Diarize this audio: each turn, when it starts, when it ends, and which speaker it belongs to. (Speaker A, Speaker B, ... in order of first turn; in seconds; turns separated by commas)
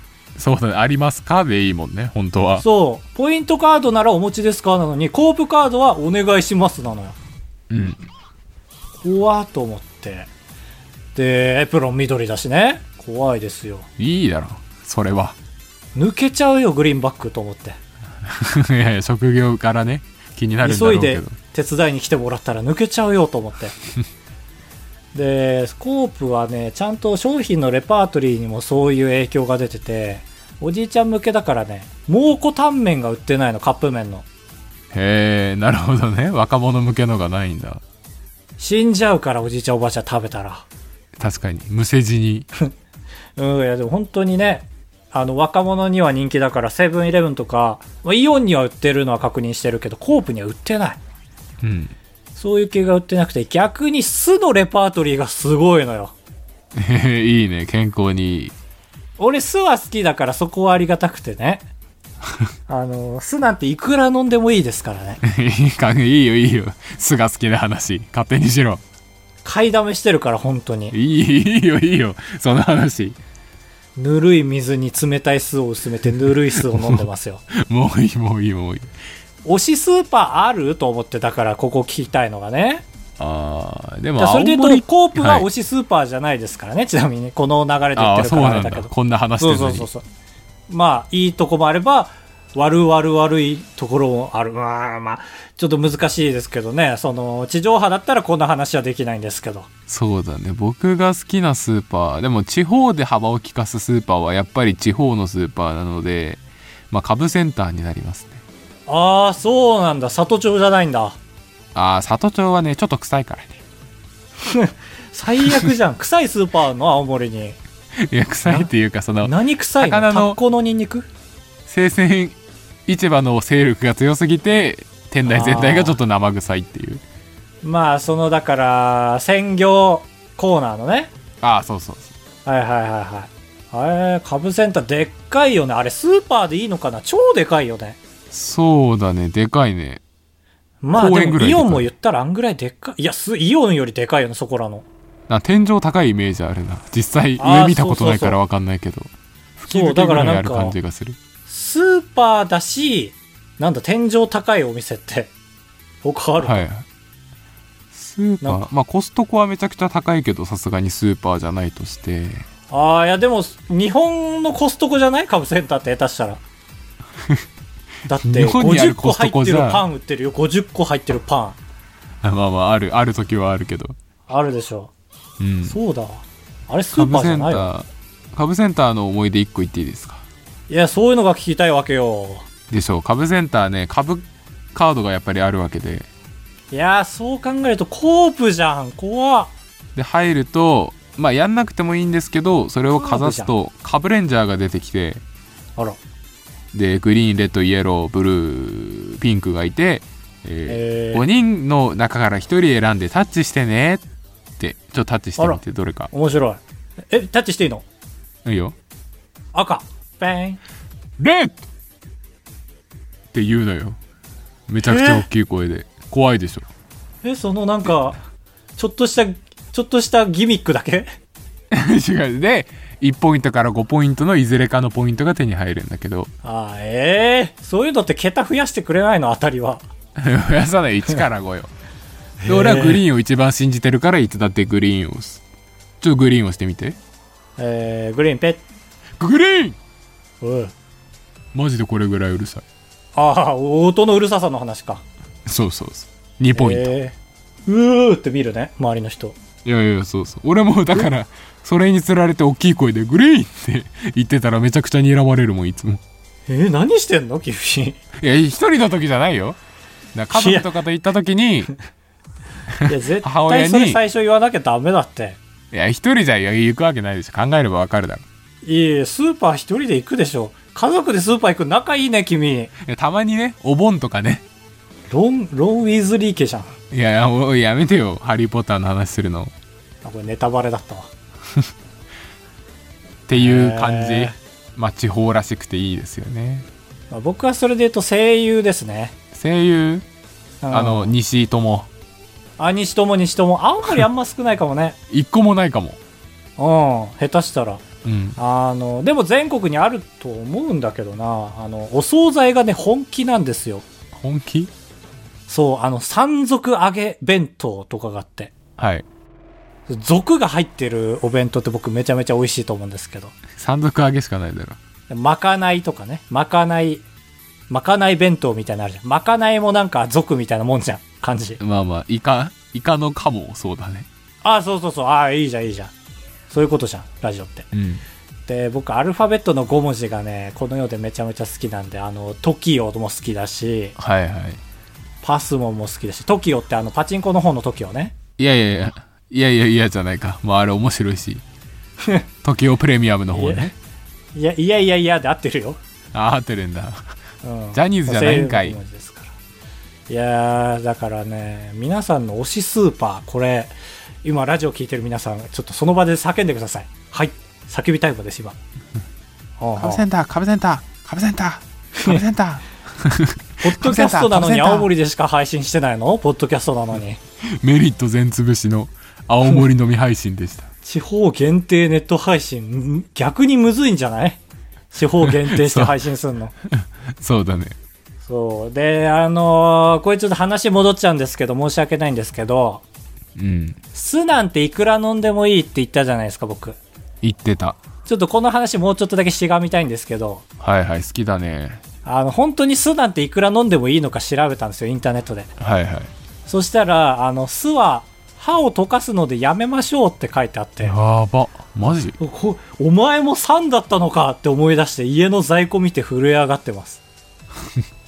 Speaker A: 0.4-2.6, Speaker B: 2.6-7.2, Speaker A: 7.7-8.1, Speaker B: 9.0-10.3, Speaker B: 11.2-13.9, Speaker A: 14.0-15.4, Speaker B: 15.9-17.8, Speaker A: 18.3-21.4, Speaker B: 20.6-23.8, Speaker B: 25.1-34.2, Speaker A: 34.9-37.8, Speaker B: 38.6-40.7, Speaker A: 41.2-42.5, Speaker B: 43.4-51.0, Speaker A: 51.6-51.9, Speaker B: 52.4-56.1, Speaker A: 56.8-58.5, Speaker B: 59.2-61.6, Speaker B: 62.7-65.2, Speaker A: 65.2-68.8, Speaker B: 69.4-71.0, Speaker A: 70.9-73.2, Speaker B: 74.0-77.4, Speaker A: 76.7-77.0, Speaker A: 77.5-78.9, Speaker B: 79.4-82.8, Speaker A: 83.2-85.5, Speaker B: 84.2-90.0, Speaker A: 88.0-89.9, Speaker B: 90.7-99.7, Speaker A: 99.9-108.4, Speaker B: 108.9-111.2, Speaker A: 111.8-113.6, Speaker B: 114.4-117.6, Speaker A: 115.4-115.7, Speaker A: 118.0-120.4, Speaker B: 118.5-118.7, Speaker B: 119.2-121.1, Speaker A: 121.7-122.4, Speaker A: 122.9-127.0, Speaker B: 125.3-126.0, Speaker B: 127.6-131.1, Speaker A: 131.4-132.1, Speaker B: 132.5-138.0, Speaker A: 138.3-140.0, Speaker B: 140.8-144.9, Speaker A: 140.9-141.9, Speaker A: 145.3-151.2, Speaker B: 147.4-148.4, Speaker B: 149.7-150.8, Speaker B: 151.5-155.3, Speaker B: 156.0-156.6, Speaker A: 156.4-156.9, Speaker A: 157.9-162.5, Speaker B: 158.4-158.7, Speaker B: 162.7-166.4, Speaker B: 168.1-171.6, Speaker A: 168.2-169.8, Speaker A: 172.2-173.9, Speaker B: 174.3-174.9, Speaker A: 175.4-175.8, Speaker B: 175.7-177.7, Speaker A: 176.9-180.2, Speaker B: 180.7-182.4, Speaker A: 182.7-186.1, Speaker B: 186.7-189.5, Speaker A: 190.0-195.2, Speaker B: 192.9-193.5, Speaker A: 196.7-204.0, Speaker B: 200.7-201.2, Speaker A: 204.6-206.1, Speaker B: 205.4-207.8, Speaker A: 208.4-208.8, Speaker B: 209.5-210.6, Speaker A: 211.2-211.6, Speaker A: 213.3-214.0, Speaker A: 214.7-216.7, Speaker B: 214.8-215.3, Speaker B: 217.2-218.2, Speaker B: 218.8-221.1, Speaker A: 221.7-226.3, Speaker B: 226.4-229.8, Speaker A: 230.2-231.7, Speaker B: 232.4-233.0, Speaker A: 232.5-235.4, Speaker A: 236.0-237.0, Speaker B: 237.6-238.6, Speaker A: 239.2-239.8, Speaker B: 240.4-240.7, Speaker A: 241.5-242.6, Speaker B: 243.2-245.0, Speaker A: 245.5-246.9, Speaker B: 246.6-249.4, Speaker A: 249.7-256.0, Speaker B: 256.5-258.0, Speaker A: 258.2-259.6, Speaker A: 260.1-261.7, Speaker B: 260.3-260.7, Speaker A: 262.8-264.0, Speaker B: 262.9-265.4, Speaker A: 265.7-268.2, Speaker B: 268.6-272.7, Speaker A: 272.8-274.4, Speaker B: 275.1-276.8, Speaker A: 276.9-279.5, Speaker B: 280.0-281.1, Speaker A: 283.3-286.7, Speaker B: 283.4-284.4, Speaker B: 287.1-289.1, Speaker A: 289.3-290.1, Speaker B: 290.6-291.1, Speaker A: 290.7-291.9, Speaker B: 292.6-295.0, Speaker A: 295.1-296.0, Speaker B: 296.6-297.8, Speaker A: 298.0-298.4, Speaker B: 298.4-303.9, Speaker A: 304.1-304.7, Speaker B: 305.5-308.5, Speaker A: 308.8-309.1, Speaker B: 309.9-313.4, Speaker A: 313.6-314.8, Speaker B: 315.1-317.1, Speaker B: 317.7-321.6, Speaker A: 321.6-324.1, Speaker B: 324.4-325.9, Speaker B: 326.5-327.7, Speaker A: 327.7-328.0, Speaker B: 328.5-333.9, Speaker A: 334.0-334.6, Speaker B: 335.2-338.1, Speaker A: 338.4-341.4, Speaker B: 342.0-342.3, Speaker A: 342.4-343.8, Speaker B: 343.3-343.7, Speaker B: 344.3-345.8, Speaker A: 346.1-347.1, Speaker B: 347.4-349.3, Speaker A: 347.7-348.8, Speaker B: 350.1-358.6, Speaker B: 359.6-360.0, Speaker A: 359.8-364.9, Speaker B: 362.0-362.2, Speaker B: 363.6-367.2, Speaker A: 367.4-370.7, Speaker B: 370.9-374.4, Speaker B: 374.9-376.5, Speaker A: 375.2-376.0, Speaker A: 376.7-377.8, Speaker B: 378.2-382.8, Speaker A: 383.4-383.8, Speaker B: 383.9-386.8, Speaker A: 387.2-387.8, Speaker B: 388.1-390.4, Speaker A: 390.6-391.8, Speaker B: 392.1-395.5, Speaker A: 395.6-396.1, Speaker B: 396.5-400.9, Speaker A: 400.8-402.2, Speaker B: 402.2-407.0